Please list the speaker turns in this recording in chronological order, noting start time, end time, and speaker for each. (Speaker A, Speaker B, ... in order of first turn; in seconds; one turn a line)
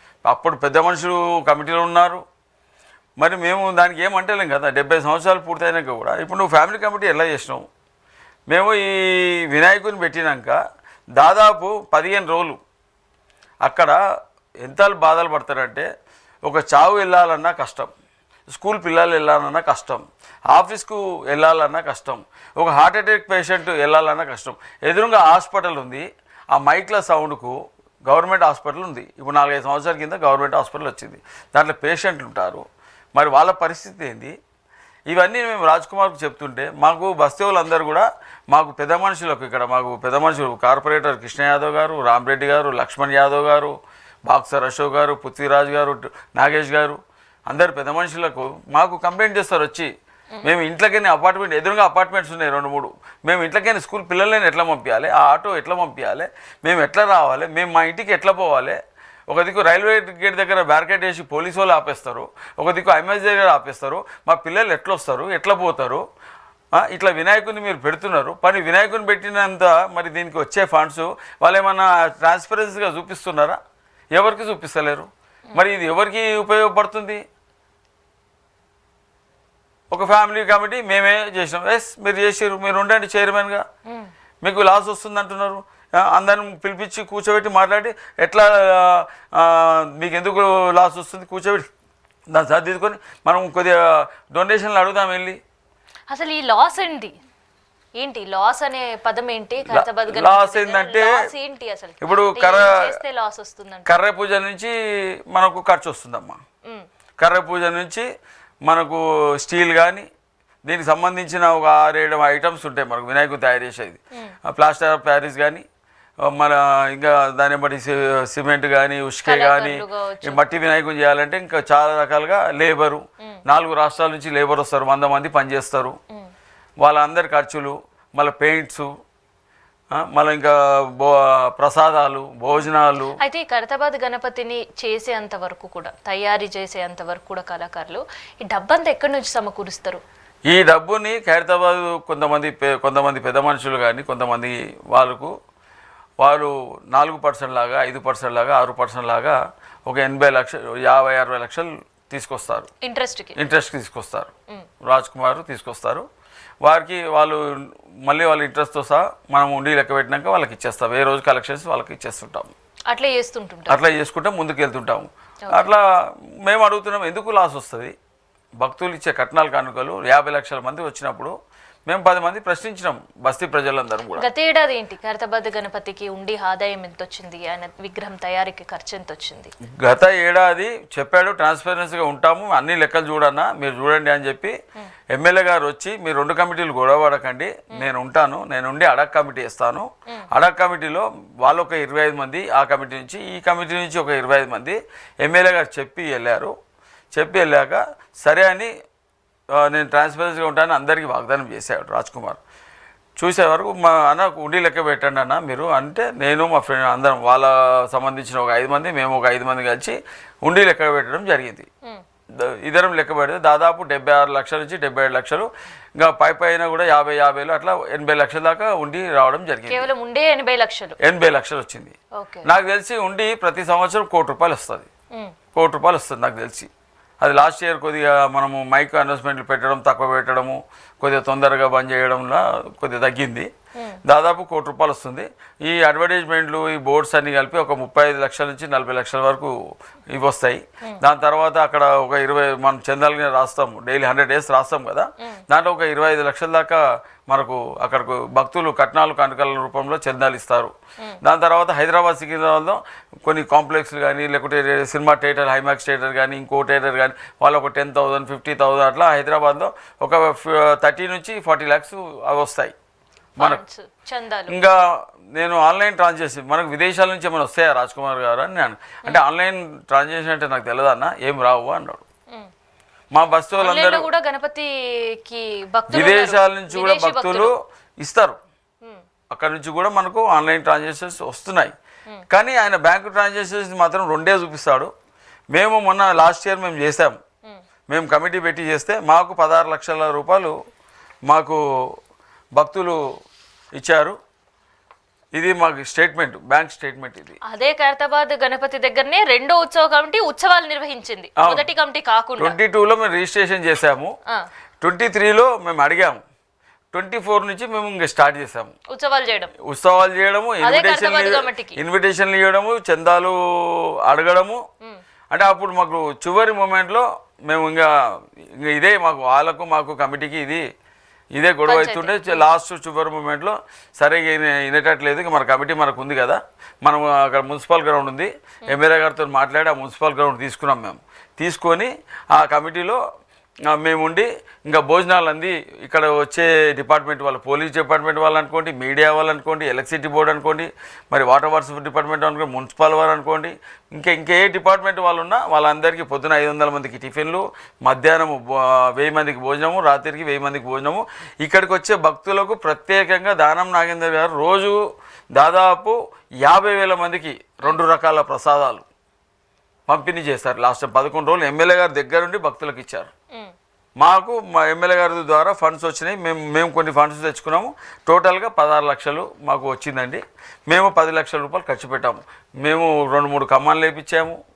Speaker A: 0.2-2.2
Speaker A: 3.2-7.6
Speaker A: 8.5-10.6
Speaker A: 11.2-12.6
Speaker A: 13.6-14.0
Speaker A: 14.6-15.8
Speaker A: 16.4-17.9
Speaker A: 18.5-27.5
Speaker A: 28.1-34.3
Speaker A: 35.1-43.8
Speaker A: 44.3-49.9
Speaker A: 50.4-58.8
Speaker A: 59.3-66.0
Speaker A: 66.8-73.6
Speaker A: 74.1-77.2
Speaker A: 79.9-83.6
Speaker A: 84.4-91.7
Speaker A: 92.3-93.8
Speaker A: 94.3-95.4
Speaker B: 96.1-97.1
Speaker B: 98.0-103.9
Speaker A: 99.7-101.1
Speaker A: 102.0-102.9
Speaker A: 103.8-104.7
Speaker A: 105.3-106.4
Speaker A: 107.2-108.0
Speaker A: 108.7-110.0
Speaker A: 110.6-115.6
Speaker A: 116.3-126.0
Speaker B: 119.2-120.4
Speaker A: 126.8-128.9
Speaker A: 129.9-133.2
Speaker B: 133.2-140.0
Speaker A: 140.5-145.3
Speaker A: 146.2-152.7
Speaker B: 152.8-153.4
Speaker A: 153.3-154.3
Speaker A: 154.8-156.1
Speaker A: 156.6-162.5
Speaker B: 162.9-163.8
Speaker A: 163.7-165.8
Speaker B: 165.5-165.7
Speaker A: 166.4-167.9
Speaker A: 168.6-171.3
Speaker A: 171.9-174.3
Speaker B: 174.2-179.5
Speaker A: 179.8-184.5
Speaker A: 185.1-196.5
Speaker A: 197.1-198.7
Speaker A: 199.6-202.4
Speaker A: 203.2-211.7
Speaker A: 212.4-219.9
Speaker B: 219.7-221.0
Speaker A: 221.0-224.9
Speaker B: 222.2-222.5
Speaker A: 225.5-226.7
Speaker A: 227.2-233.5
Speaker A: 234.1-239.5
Speaker A: 240.1-262.7
Speaker B: 263.4-264.6
Speaker A: 264.5-272.0
Speaker A: 273.1-274.1
Speaker B: 273.6-277.5
Speaker A: 275.9-278.4
Speaker A: 279.3-281.7
Speaker A: 282.3-284.9
Speaker A: 285.5-287.2
Speaker A: 287.9-290.5
Speaker A: 291.3-291.6
Speaker A: 292.6-293.0
Speaker A: 293.8-294.2
Speaker A: 295.4-297.4
Speaker B: 297.4-302.5
Speaker A: 301.4-301.6
Speaker A: 302.4-304.1
Speaker A: 304.8-306.2
Speaker A: 306.9-308.7
Speaker B: 308.9-309.5
Speaker A: 309.6-314.6
Speaker B: 310.6-311.8
Speaker A: 315.3-317.9
Speaker A: 318.6-320.6
Speaker A: 321.4-333.0
Speaker B: 321.7-322.4
Speaker A: 333.7-354.8
Speaker A: 355.4-358.9
Speaker A: 359.9-363.1
Speaker A: 364.0-374.4